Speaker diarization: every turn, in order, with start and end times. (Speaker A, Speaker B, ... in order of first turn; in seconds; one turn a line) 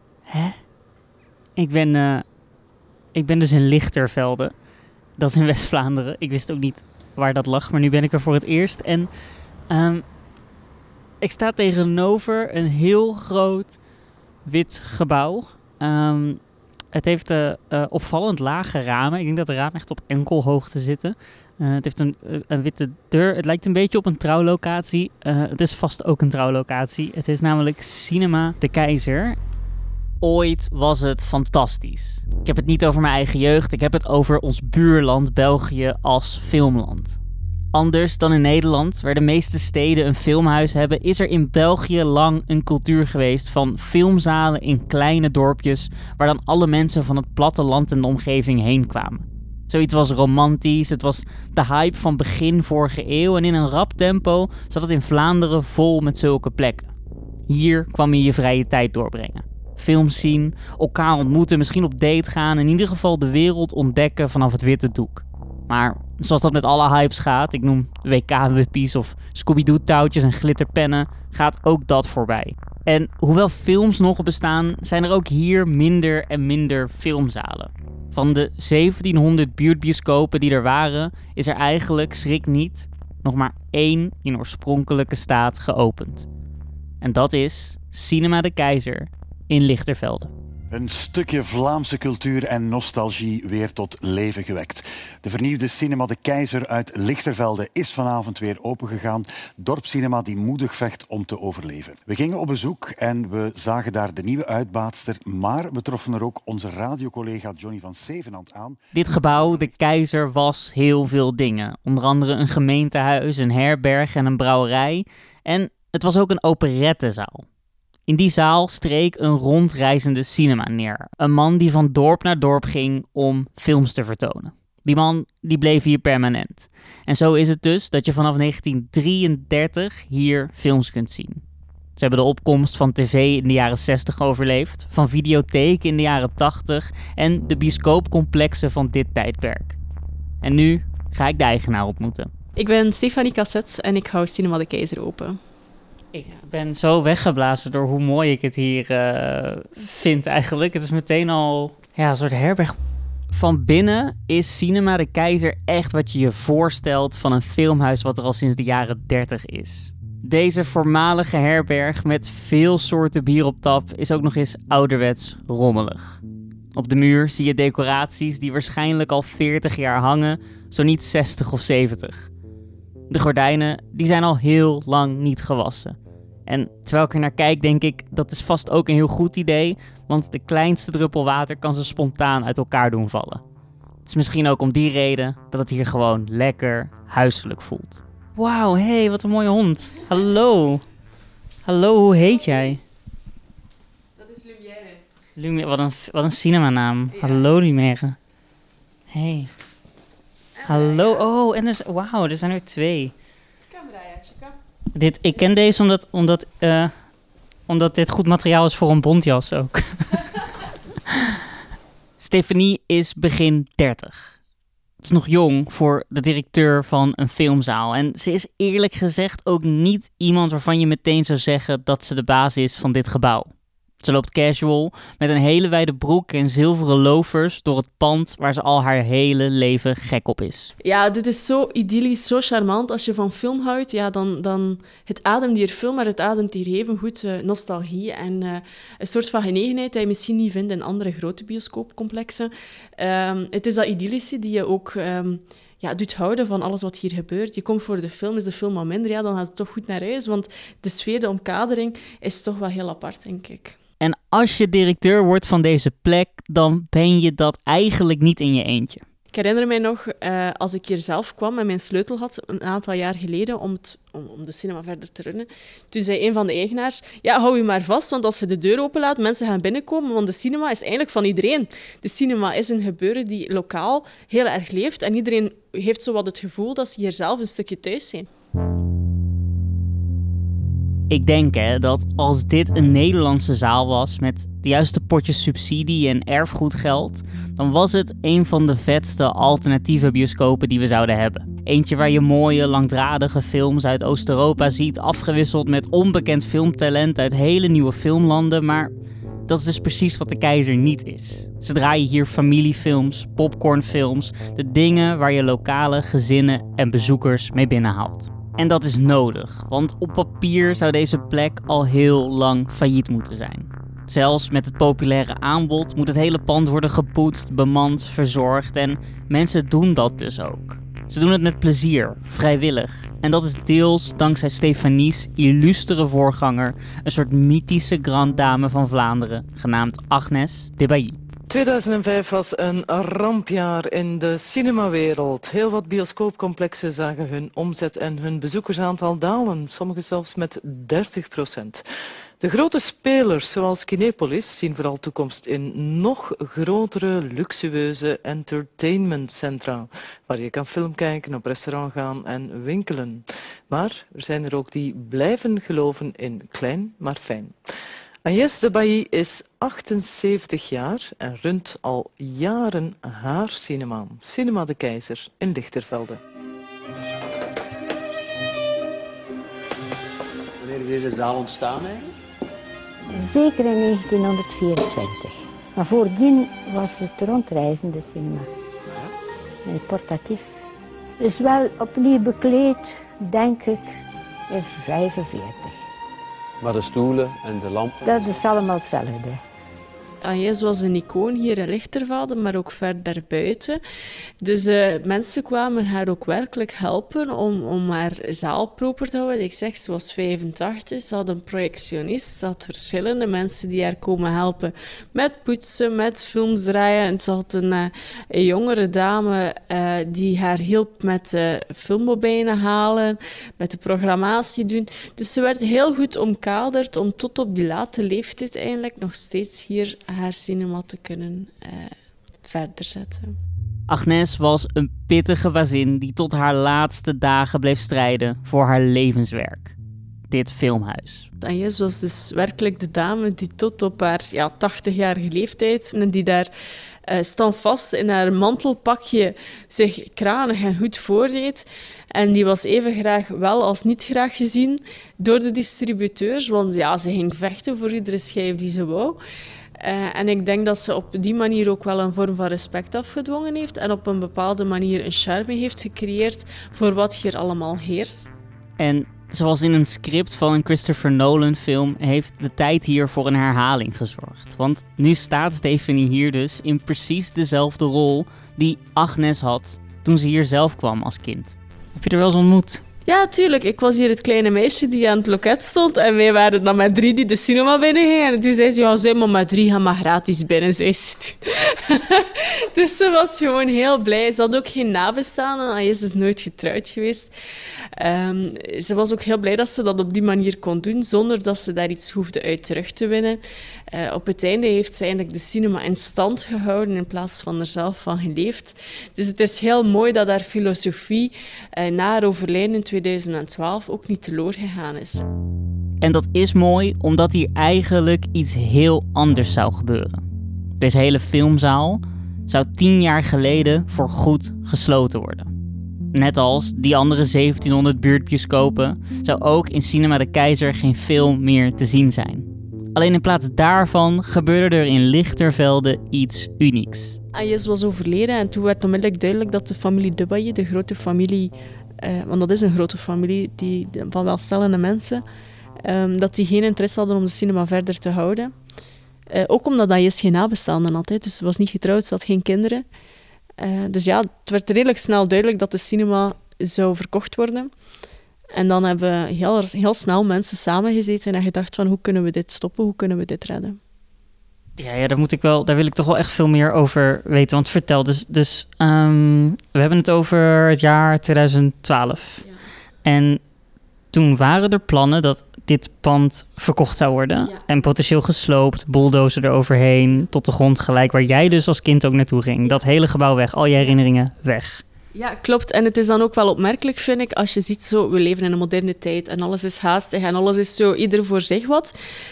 Speaker A: 0.3-0.6
Speaker A: 1.6-2.3
Speaker A: 3.1-4.5
Speaker A: 5.2-9.1
Speaker A: 9.7-10.1
Speaker A: 11.2-13.8
Speaker A: 14.4-16.4
Speaker A: 16.9-29.4
Speaker A: 30.2-37.2
Speaker A: 37.7-56.9
Speaker A: 57.5-86.3
Speaker A: 87.0-90.3
Speaker B: 90.7-108.8
Speaker A: 108.9-117.5
Speaker A: 118.1-131.4
Speaker A: 132.0-139.8
Speaker A: 140.4-142.3
Speaker C: 142.6-145.4
Speaker A: 146.1-152.8
Speaker A: 153.3-166.2
Speaker A: 166.7-172.3
Speaker A: 173.1-183.4
Speaker A: 184.1-190.8
Speaker A: 191.7-192.8
Speaker C: 194.2-195.0
Speaker A: 195.4-198.2
Speaker A: 199.1-199.5
Speaker A: 200.7-203.1
Speaker C: 203.7-204.5
Speaker A: 204.9-206.9
Speaker A: 207.7-210.3
Speaker A: 212.2-214.3
Speaker A: 215.0-230.7
Speaker C: 230.8-253.8
Speaker A: 254.0-259.0
Speaker C: 259.3-278.3
Speaker A: 281.1-298.9
Speaker A: 299.5-331.2
Speaker D: 331.5-341.8
Speaker D: 342.4-357.6
Speaker D: 358.2-366.2
Speaker E: 370.6-372.1
Speaker F: 373.1-378.5
Speaker F: 379.6-380.6
Speaker F: 381.2-383.9
Speaker F: 384.5-385.8
Speaker E: 386.6-388.4
Speaker F: 388.0-389.4
Speaker C: 390.2-393.8
Speaker C: 394.4-421.9
Speaker C: 422.4-423.4
Speaker A: 423.9-429.8
Speaker A: 430.3-431.3
Speaker C: 431.4-436.5
Speaker C: 437.1-449.2
Speaker C: 449.8-458.3
Speaker A: 458.8-472.8
Speaker C: 473.1-487.3
Speaker C: 487.9-505.2
Speaker A: 506.0-510.2
Speaker A: 510.8-515.5
Speaker A: 516.1-527.2
Speaker C: 527.4-535.2
Speaker C: 535.8-538.5
Speaker C: 539.3-542.8
Speaker C: 543.6-547.7
Speaker C: 548.5-553.8
Speaker A: 554.8-562.4
Speaker A: 563.0-563.4
Speaker A: 564.1-574.8
Speaker C: 575.1-581.9